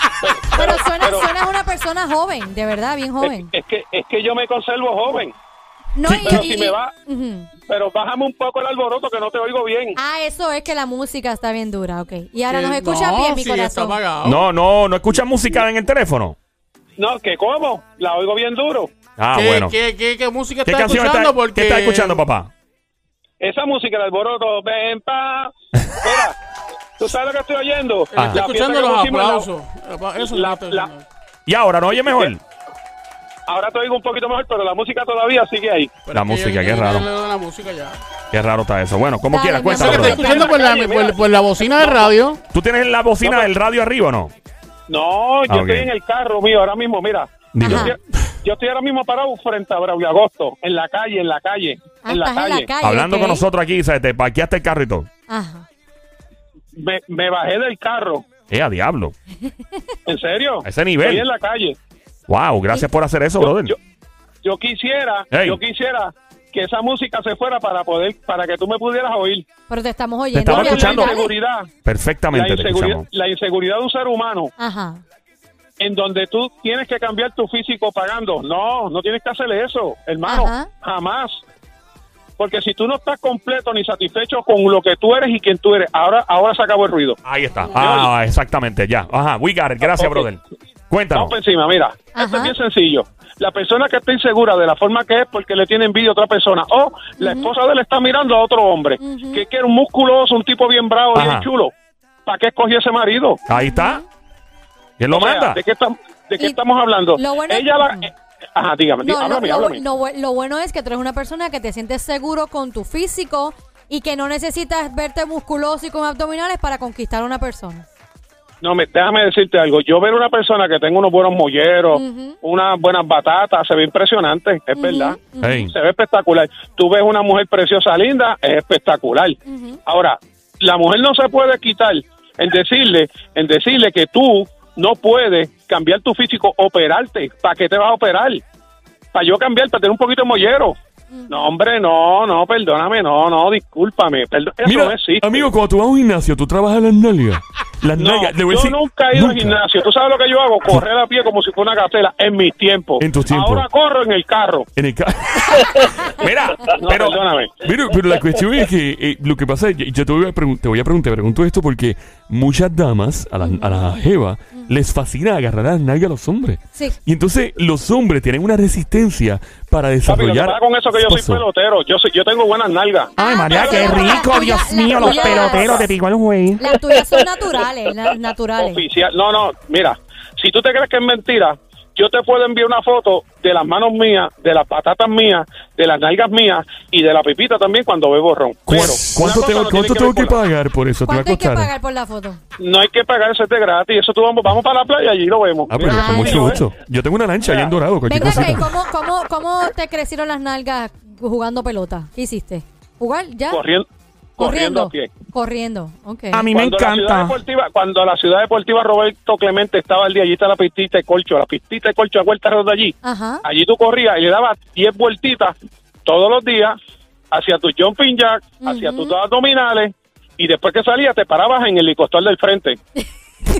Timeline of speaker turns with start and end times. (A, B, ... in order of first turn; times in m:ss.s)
0:00.2-0:01.3 A
0:00.5-0:03.5 B
0:03.2-0:05.3 A
0:05.9-0:07.5 B
0:06.0-0:06.5 C
0:06.2-0:06.9 A
0:07.6-0:10.0 A
0:10.0-0:14.0 B
0:12.5-0:14.5 D
0:14.2-0:16.4 E
0:17.0-0:18.9 A
0:19.2-0:19.7 E
0:19.3-0:22.2 D
0:20.6-0:22.5 E
0:23.4-0:26.4 A
0:27.0-0:29.5 A
0:28.1-0:31.0 D
0:28.2-0:28.4 E
0:30.2-0:30.9 A
0:31.4-0:32.4 E
0:33.5-0:36.0 A
0:36.0-0:38.0 D
0:36.1-0:37.0 E
0:38.3-0:40.3 E
0:39.3-0:40.4 B
0:39.7-0:42.4 D
0:39.8-0:42.1 A
0:42.5-0:44.3 E
0:43.2-0:43.5 A
0:44.9-0:52.7 A
0:45.5-0:45.9 E
0:47.5-0:47.9 E
0:47.6-0:48.0 B
0:52.0-0:53.4 B
0:52.8-0:55.1 E
0:55.3-0:55.6 B
0:56.8-0:58.2 A
0:58.5-0:59.1 E
1:00.0-1:01.8 A
1:00.6-1:01.2 E
1:02.3-1:03.7 E
1:03.4-1:03.8 A
1:04.4-1:09.5 A
1:05.3-1:05.6 E
1:09.7-1:11.3 B
1:10.3-1:11.1 E
1:10.4-1:11.7 A
1:11.8-1:13.0 E
1:12.3-1:14.5 A
1:14.6-1:15.0 B
1:15.8-1:21.4 A
1:20.2-1:20.7 B
1:22.4-1:27.2 A
1:27.2-1:31.3 E
1:27.7-1:28.1 A
1:29.9-1:30.2 A
1:31.1-1:41.7 A
1:32.1-1:32.5 B
1:37.2-1:37.5 B
1:39.0-1:39.5 B
1:41.1-1:41.5 E
1:42.2-1:43.4 A
1:43.5-1:44.0 E
1:43.5-1:44.0 B
1:45.0-1:45.6 E
1:45.1-1:49.8 A
1:47.1-1:48.1 B
1:49.0-1:57.8 B
1:58.6-2:05.2 A
2:01.9-2:02.4 B
2:04.7-2:05.7 B
2:05.4-2:05.7 E
2:05.7-2:18.4 A
2:09.4-2:09.8 B
2:19.1-2:20.8 A
2:21.1-2:21.6 B
2:21.3-2:25.4 A
2:24.6-2:29.6 C
2:28.0-2:34.7 A
2:33.0-2:33.6 C
2:34.8-2:35.9 C
2:36.2-2:37.2 E
2:36.7-2:37.6 A
2:37.6-2:51.4 C
2:43.4-2:44.0 B
2:50.0-2:54.3 A
2:53.2-2:55.9 B
2:53.2-2:56.6 F
2:55.0-2:55.8 A
2:56.6-2:58.8 B
2:58.6-3:10.4 A
3:08.6-3:11.7 C
3:11.0-3:12.4 B
3:12.6-3:16.6 A
3:15.7-3:18.7 C
3:15.9-3:16.6 B
3:17.4-3:17.7 A
3:18.0-3:23.6 B
3:23.5-3:23.8 A
3:24.4-3:25.2 A
3:24.4-3:26.5 B
3:26.3-3:27.4 F
3:26.5-3:36.8 A
3:33.0-3:33.4 B
3:37.3-3:42.8 A
3:38.6-3:39.2 B